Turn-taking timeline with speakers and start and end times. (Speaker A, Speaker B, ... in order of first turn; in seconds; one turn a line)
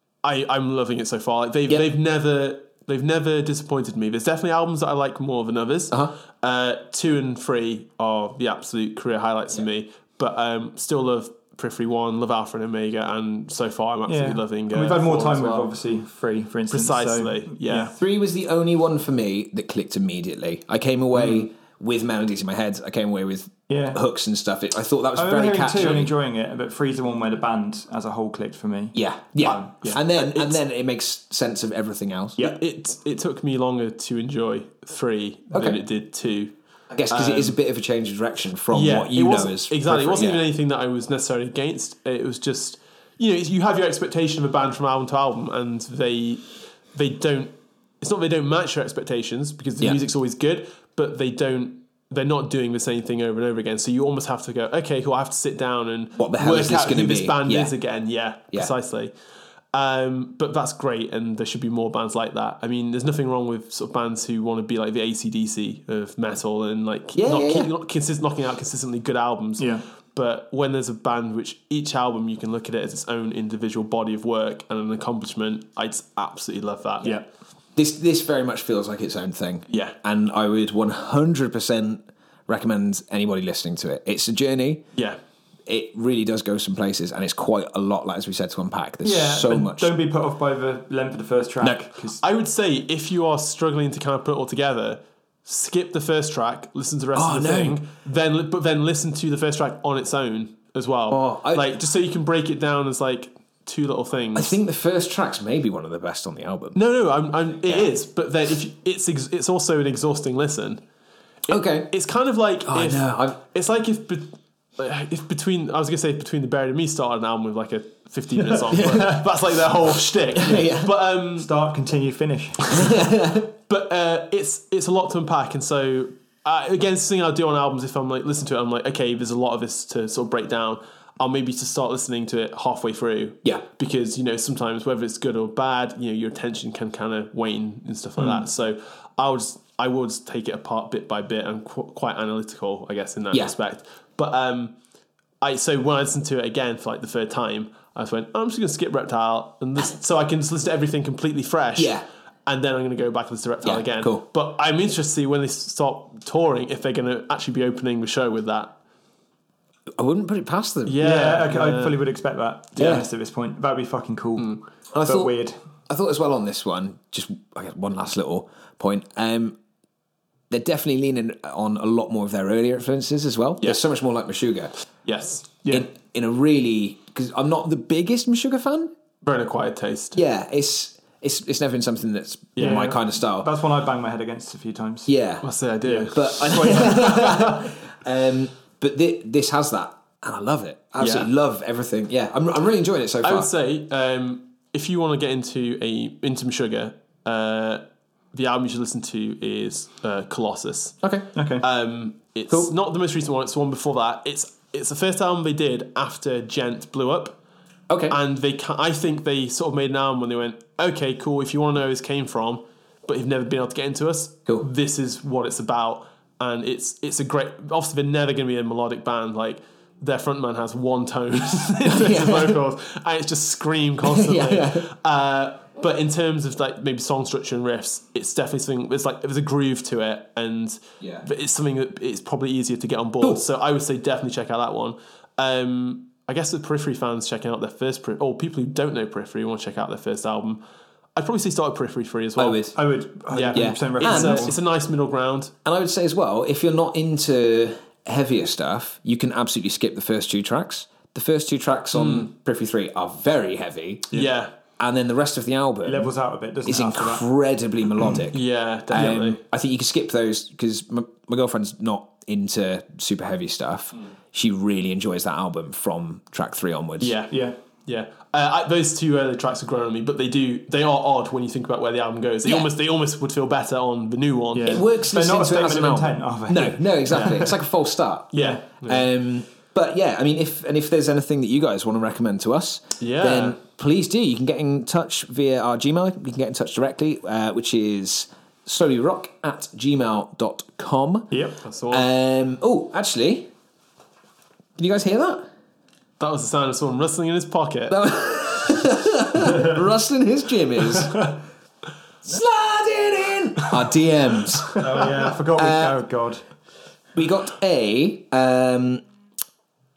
Speaker A: 0.2-15.7
Speaker B: 14.1-17.9
Speaker A: 16.7-17.9
Speaker C: 17.9-26.1
Speaker B: 23.7-24.0
Speaker B: 25.1-30.0
Speaker C: 28.9-32.4
Speaker A: 29.9-30.6
Speaker A: 32.4-36.5
Speaker C: 35.5-35.8
Speaker C: 36.9-40.4
Speaker A: 37.1-37.6
Speaker A: 38.7-59.1
Speaker C: 56.2-57.7
Speaker A: 59.7-77.2
Speaker C: 67.1-67.7
Speaker B: 69.6-69.8
Speaker C: 77.8-84.8
Speaker A: 79.7-79.9
Speaker C: 85.7-89.9
Speaker B: 89.0-92.2
Speaker A: 92.2-104.5
Speaker C: 97.1-97.8
Speaker C: 101.1-101.7
Speaker C: 104.3-106.8
Speaker A: 106.7-110.8
Speaker A: 111.4-121.5
Speaker C: 111.5-111.9
Speaker C: 112.7-113.4
Speaker C: 118.7-119.2
Speaker B: 118.8-119.3
Speaker C: 120.3-120.9
Speaker B: 121.4-122.8
Speaker C: 122.7-123.5
Speaker A: 123.7-144.7
Speaker A: 145.4-158.7
Speaker C: 151.8-152.0
Speaker C: 153.6-154.2
Speaker C: 160.0-161.1
Speaker A: 160.8-162.0
Speaker B: 161.0-165.6
Speaker C: 162.8-163.1
Speaker C: 164.9-165.3
Speaker C: 165.9-169.6
Speaker C: 170.5-174.7
Speaker A: 175.0-175.5
Speaker C: 175.7-178.9
Speaker A: 179.2-180.2
Speaker C: 180.1-183.5
Speaker A: 182.6-182.9
Speaker B: 182.6-185.1
Speaker C: 185.1-185.4
Speaker A: 185.4-187.6
Speaker B: 185.8-187.4
Speaker C: 186.1-193.5
Speaker A: 191.0-191.3
Speaker A: 193.2-201.0
Speaker B: 201.3-201.6
Speaker A: 201.6-207.3
Speaker C: 207.9-208.2
Speaker A: 208.1-240.6
Speaker C: 221.8-222.6
Speaker C: 224.0-224.9
Speaker A: 241.2-242.7
Speaker C: 242.3-242.7
Speaker B: 242.7-244.6
Speaker A: 243.3-245.5
Speaker C: 243.5-244.5
Speaker C: 245.6-254.2
Speaker A: 251.9-252.3
Speaker A: 254.1-254.5
Speaker C: 254.8-256.1
Speaker B: 255.8-257.2
Speaker C: 256.6-267.2
Speaker A: 258.3-259.4
Speaker A: 267.0-274.8
Speaker B: 267.3-267.6
Speaker B: 274.5-277.6
Speaker C: 274.6-291.4
Speaker A: 278.3-279.1
Speaker B: 278.4-278.6
Speaker A: 283.0-283.6
Speaker B: 291.3-291.6
Speaker A: 291.6-292.1
Speaker C: 291.9-293.5
Speaker C: 294.8-295.5
Speaker A: 296.2-298.0
Speaker C: 297.9-301.3
Speaker C: 302.2-306.0
Speaker B: 304.7-306.4
Speaker C: 307.1-309.0